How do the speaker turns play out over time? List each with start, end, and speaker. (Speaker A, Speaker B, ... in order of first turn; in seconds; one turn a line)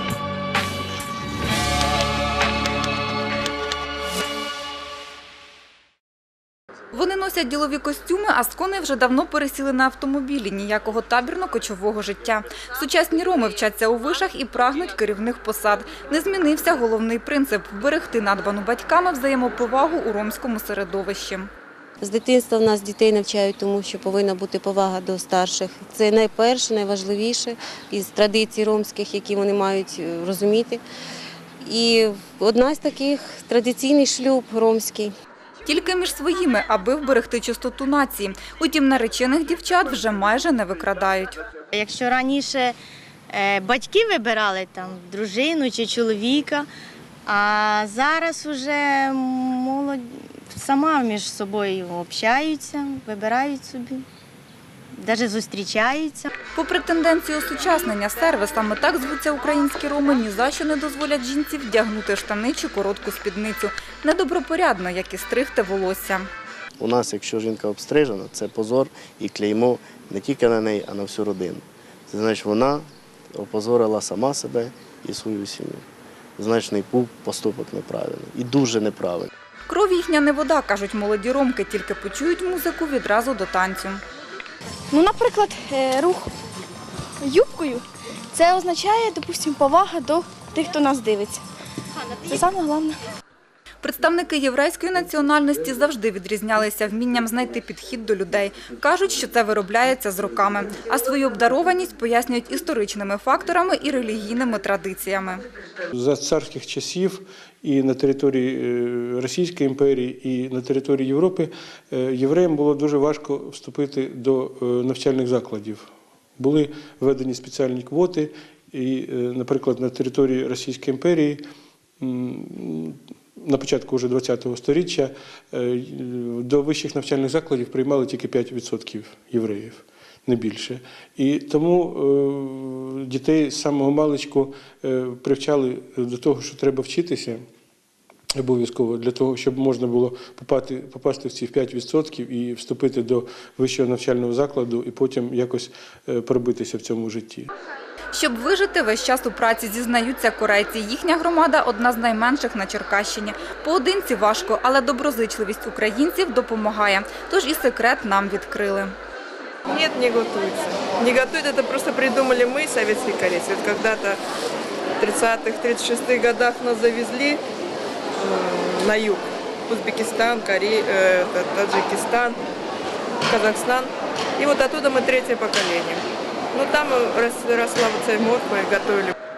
Speaker A: 6.9-21.5
Speaker B: 22.0-30.8
Speaker B: 31.6-35.1
Speaker A: 35.6-41.4
Speaker C: 41.7-42.8
Speaker C: 43.3-46.7
Speaker C: 47.2-54.0
Speaker C: 55.0-56.3
Speaker A: 56.5-66.3
Speaker D: 66.8-75.8
Speaker D: 76.4-79.3
Speaker A: 79.7-84.0
Speaker E: 84.9-86.3
Speaker E: 87.2-91.4
Speaker E: 92.2-93.0
Speaker A: 93.8-105.4
Speaker F: 105.9-115.9
Speaker F: 116.4-121.4
Speaker F: 122.0-137.4
Speaker F: 138.4-147.5
Speaker A: 148.1-158.9
Speaker G: 159.7-164.2
Speaker G: 165.0-167.4
Speaker G: 168.2-172.3
Speaker G: 173.3-173.9
Speaker G: 174.4-176.0
Speaker G: 176.5-179.1